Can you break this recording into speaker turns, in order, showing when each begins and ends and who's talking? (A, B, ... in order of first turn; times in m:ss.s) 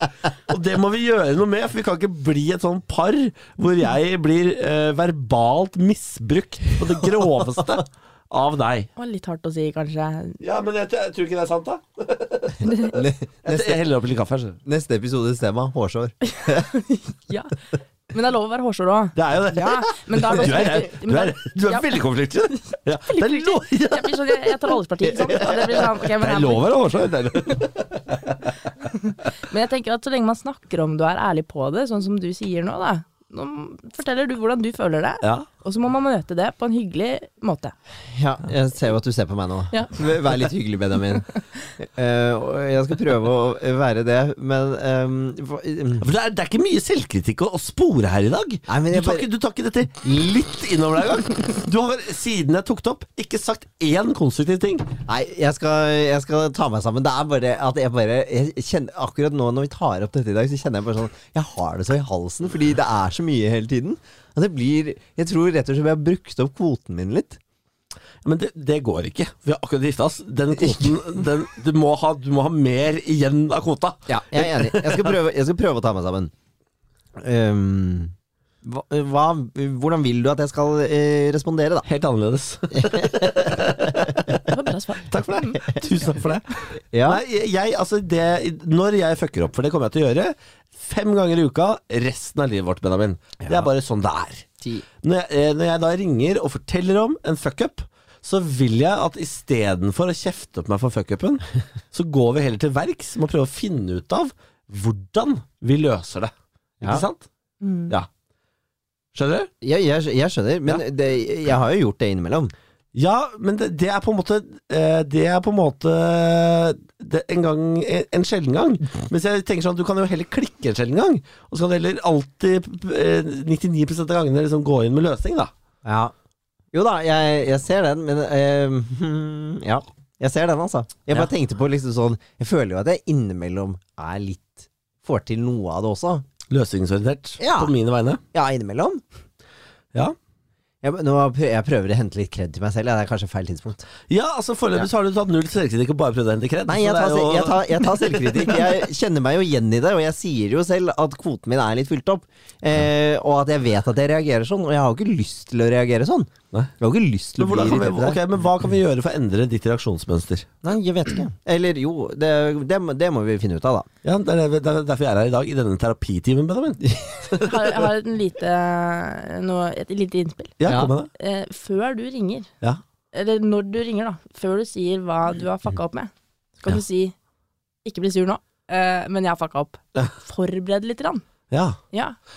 0:00.5-0:08.9 A
0:09.0-0:10.4 B
0:10.4-0:12.9 A
0:12.6-0:12.9 B
0:12.9-0:13.8 C
0:13.4-0:14.6 A
0:14.6-0:16.7 C
0:16.2-0:17.5 B
0:18.1-0:22.0 B
0:19.1-0:24.8 A
0:22.5-0:26.7 B
0:25.3-0:28.4 A
0:28.9-0:37.7 B
0:38.1-0:46.0 C
0:39.7-0:40.0 B
0:46.0-0:54.9 A
0:48.7-0:49.3 C
0:55.0-1:07.4 C
1:08.2-1:15.1 A
1:10.6-1:10.9 C
1:14.1-1:16.3 C
1:17.2-1:21.8 C
1:21.8-1:24.5 A
1:22.7-1:24.3 C
1:24.5-1:25.6 B
1:25.1-1:34.5 A
1:26.9-1:27.2 C
1:33.4-1:33.7 C
1:35.0-1:47.2 A
1:47.6-1:47.9 B
1:49.1-1:49.5 A
1:49.6-1:52.5 C
1:52.9-2:05.5 A
2:05.8-2:06.1 C
2:06.7-2:16.2 C
2:16.5-2:18.2 A
2:17.4-2:17.7 C
2:18.3-2:19.0 C
2:20.8-2:23.8 C
2:24.1-2:28.6 A
2:26.6-2:38.2 C
2:37.4-2:40.5 A
2:40.6-2:43.9 C
2:44.0-2:47.8 A
2:47.4-2:50.6 B
2:50.6-2:51.1 A
2:50.6-2:50.9 C
2:51.1-2:52.5 B
2:53.1-2:57.1 B
2:57.8-3:01.2 B
3:01.5-3:01.8 A
3:01.9-3:02.2 B